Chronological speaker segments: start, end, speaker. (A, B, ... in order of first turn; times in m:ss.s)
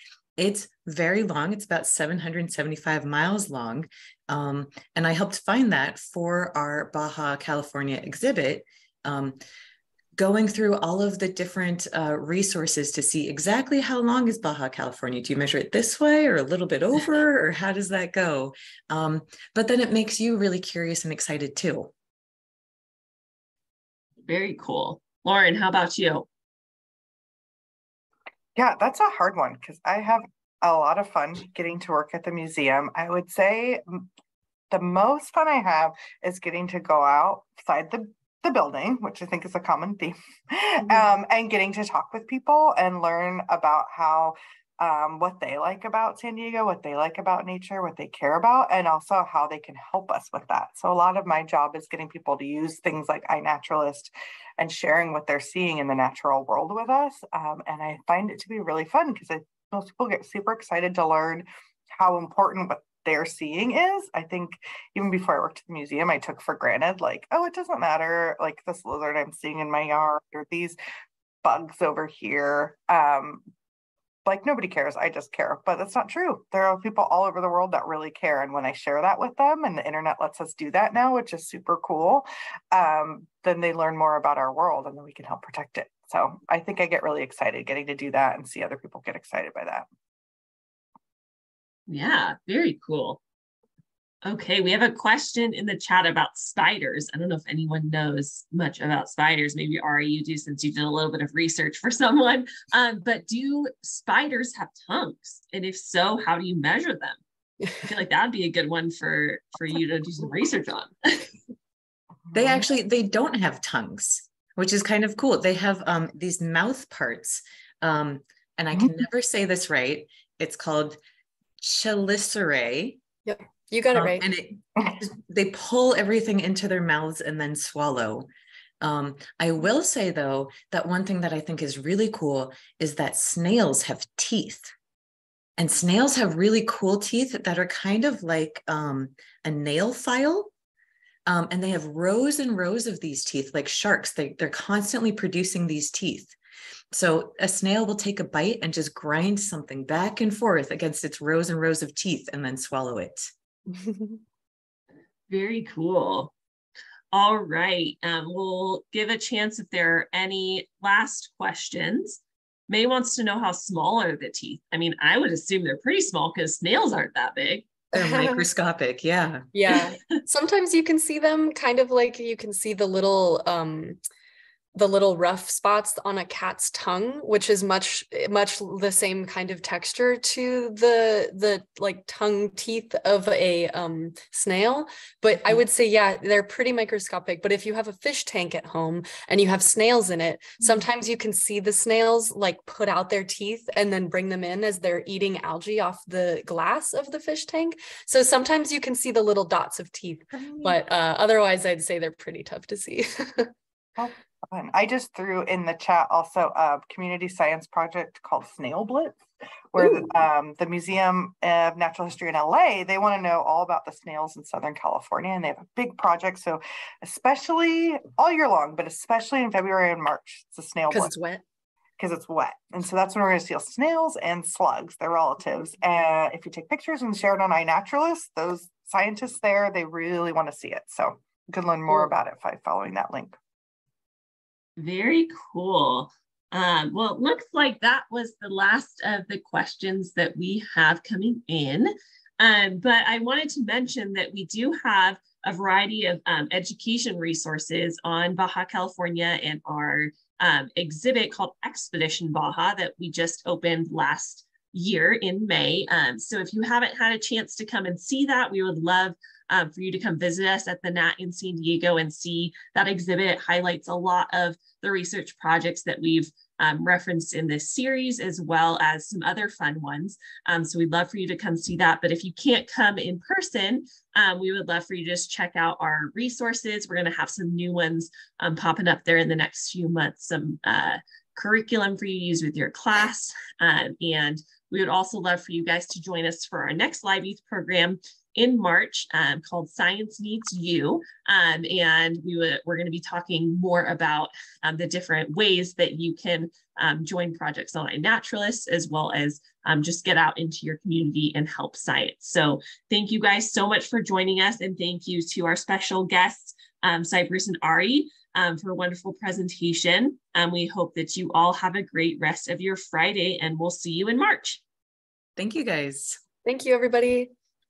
0:00.4-0:09.4 A
0:10.2-0:21.9 A
0:24.3-0:26.3 B
0:28.6-0:34.0 C
0:34.7-1:10.8 C
1:11.4-1:13.4 C
1:14.2-1:29.9 C
1:31.9-1:33.2 B
1:34.2-1:47.2 B
1:47.8-1:51.3 B
1:52.3-2:01.0 A
2:01.6-2:03.0 A
2:03.3-2:04.2 D
2:03.9-2:08.3 A
2:08.8-2:14.7 A
2:15.6-2:20.5 A
2:21.3-2:26.3 A
2:26.9-2:33.3 A
2:35.3-2:36.3 B
2:37.1-2:47.7 B
2:47.9-2:49.4 A
2:48.0-2:48.4 D
2:49.5-2:54.0 D
2:54.8-3:23.5 D
3:20.3-3:20.8 C
3:24.0-3:29.2 C
3:29.7-3:41.1 C
3:40.9-3:41.4 D
3:42.0-3:53.4 C
3:54.8-5:14.6 B
5:15.4-5:16.2 A
5:16.4-5:17.3 D